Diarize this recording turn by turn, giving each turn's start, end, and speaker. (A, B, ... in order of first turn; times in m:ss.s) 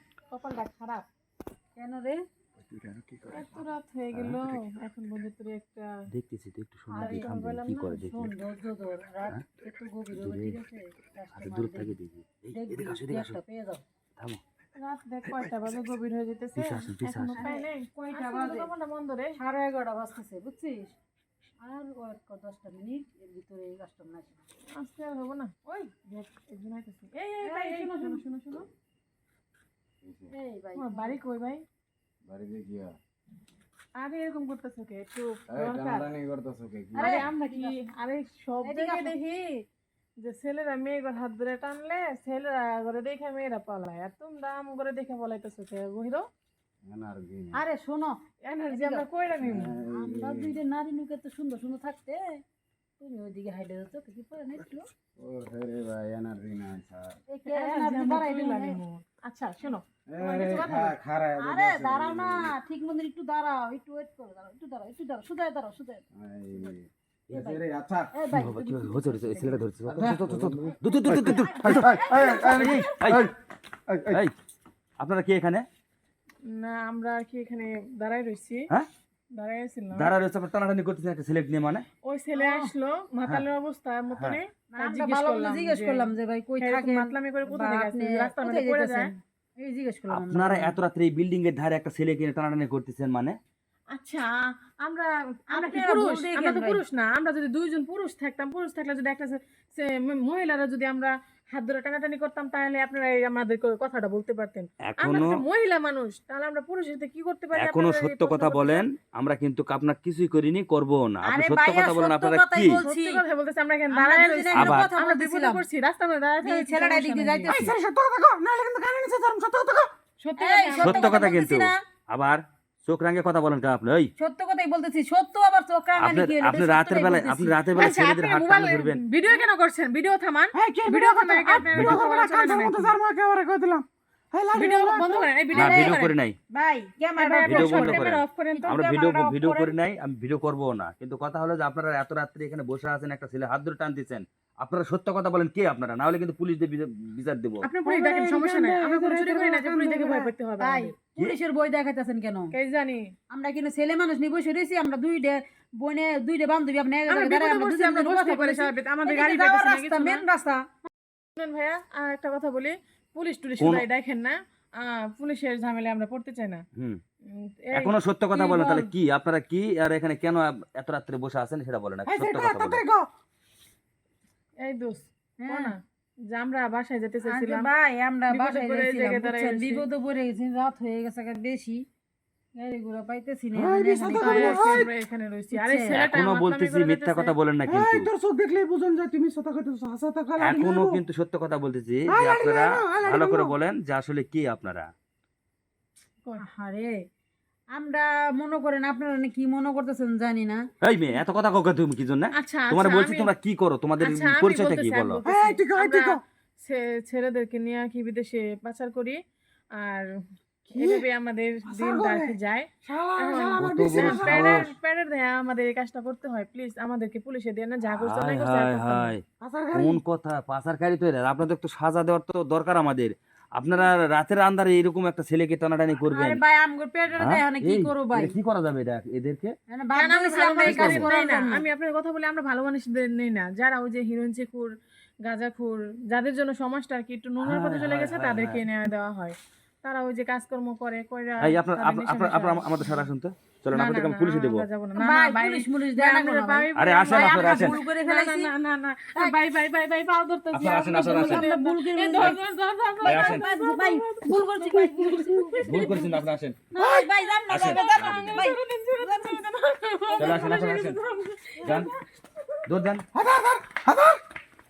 0:00.3-0:01.1 A
0:01.8-0:02.2 B
0:02.7-0:04.6 C
0:03.3-0:05.9 A
0:06.1-0:08.3 C
0:06.9-0:07.3 B
0:07.0-0:08.0 A
0:07.9-0:11.9 B
0:10.1-0:10.6 C
0:11.3-0:13.4 C
0:12.5-0:13.8 B
0:14.8-0:19.4 A
0:16.5-0:17.4 C
0:17.3-0:18.7 B
0:19.4-0:21.0 B
0:21.6-0:24.4 B
0:24.8-0:28.7 A
0:27.4-0:28.2 B
0:30.0-0:30.3 D
0:30.3-0:31.2 B
0:30.8-0:31.6 A
0:32.2-0:33.0 D
0:34.0-0:36.1 A
0:35.5-0:37.3 D
0:36.9-0:37.8 B
0:37.0-0:39.6 A
0:38.6-0:39.1 B
0:40.2-0:46.2 A
0:46.8-0:47.6 D
0:47.5-0:48.2 B
0:48.4-0:49.8 A
0:48.7-0:49.0 B
0:49.4-0:50.6 D
0:49.8-0:52.4 B
0:53.0-0:54.9 B
0:55.2-0:57.2 D
0:57.3-0:58.8 B
0:57.4-1:01.0 A
1:00.1-1:02.6 D
1:01.4-1:06.7 B
1:06.1-1:08.1 D
1:07.3-1:09.7 B
1:08.3-1:13.3 C
1:09.9-1:13.3 D
1:11.1-1:11.5 A
1:11.1-1:12.8 B
1:13.9-1:14.2 D
1:14.1-1:14.3 C
1:15.0-1:15.6 C
1:16.5-1:18.7 A
1:19.3-1:20.1 A
1:19.9-1:21.8 C
1:22.0-1:29.1 A
1:22.3-1:22.7 B
1:24.1-1:24.4 C
1:24.7-1:30.8 B
1:30.1-1:33.4 C
1:33.9-1:48.8 A
1:35.5-1:36.8 B
1:44.9-1:45.4 C
1:47.5-1:52.8 C
1:51.2-1:53.2 B
1:52.8-1:57.7 A
1:53.9-1:55.6 B
1:54.5-1:54.9 C
1:56.4-1:57.8 B
1:57.5-1:59.9 E
2:00.2-2:01.3 A
2:00.4-2:01.8 B
2:00.8-2:04.1 C
2:04.2-2:07.6 B
2:06.0-2:09.0 C
2:07.7-2:12.9 A
2:10.5-2:15.3 E
2:11.6-2:12.0 C
2:14.5-2:16.1 A
2:15.5-2:16.0 B
2:15.5-2:16.4 C
2:16.5-2:19.7 B
2:17.2-2:18.8 A
2:17.4-2:27.6 C
2:27.6-2:30.9 A
2:27.8-2:30.3 E
2:30.6-2:32.5 B
2:32.5-2:33.0 A
2:33.3-2:40.7 B
2:37.1-2:40.2 A
2:41.4-2:46.6 A
2:43.6-2:43.9 C
2:47.3-2:47.9 A
2:47.7-2:52.8 C
2:48.3-2:48.9 B
2:52.0-2:53.1 E
2:54.6-2:55.8 A
2:55.4-2:55.7 B
2:56.3-2:57.7 A
2:57.2-3:01.8 B
2:58.3-2:59.8 A
3:02.5-3:04.9 B
3:03.5-3:04.9 E
3:04.2-3:07.3 A
3:05.5-3:06.0 B
3:05.9-3:08.1 C
3:07.6-3:11.0 E
3:10.4-3:14.9 C
3:12.1-3:13.5 E
3:16.4-3:17.0 B
3:17.7-3:20.6 B
3:20.8-3:25.2 C
3:22.3-3:23.3 A
3:24.0-3:29.2 A
3:25.2-3:26.2 E
3:29.8-3:30.1 A
3:30.7-3:39.2 A
3:30.7-3:31.0 E
3:31.6-3:34.6 E
3:33.6-3:34.7 C
3:37.9-3:46.4 C
3:39.4-3:40.0 E
3:46.1-3:48.3 B
3:47.1-3:49.5 C
3:49.7-3:51.6 B
3:49.9-3:54.7 A
3:50.6-3:51.1 C
3:55.2-4:02.9 A
3:57.4-3:58.6 C
4:01.4-4:04.7 C
4:03.7-4:16.2 A
4:04.9-4:08.5 B
4:06.7-4:07.8 C
4:10.5-4:11.5 C
4:10.9-4:12.4 B
4:13.0-4:19.4 B
4:13.0-4:13.4 C
4:15.6-4:16.6 C
4:16.8-4:17.1 E
4:17.5-4:18.4 C
4:17.6-4:21.9 A
4:20.1-4:20.5 B
4:20.2-4:21.0 C
4:21.6-4:21.9 C
4:22.6-4:23.0 C
4:23.1-4:24.2 E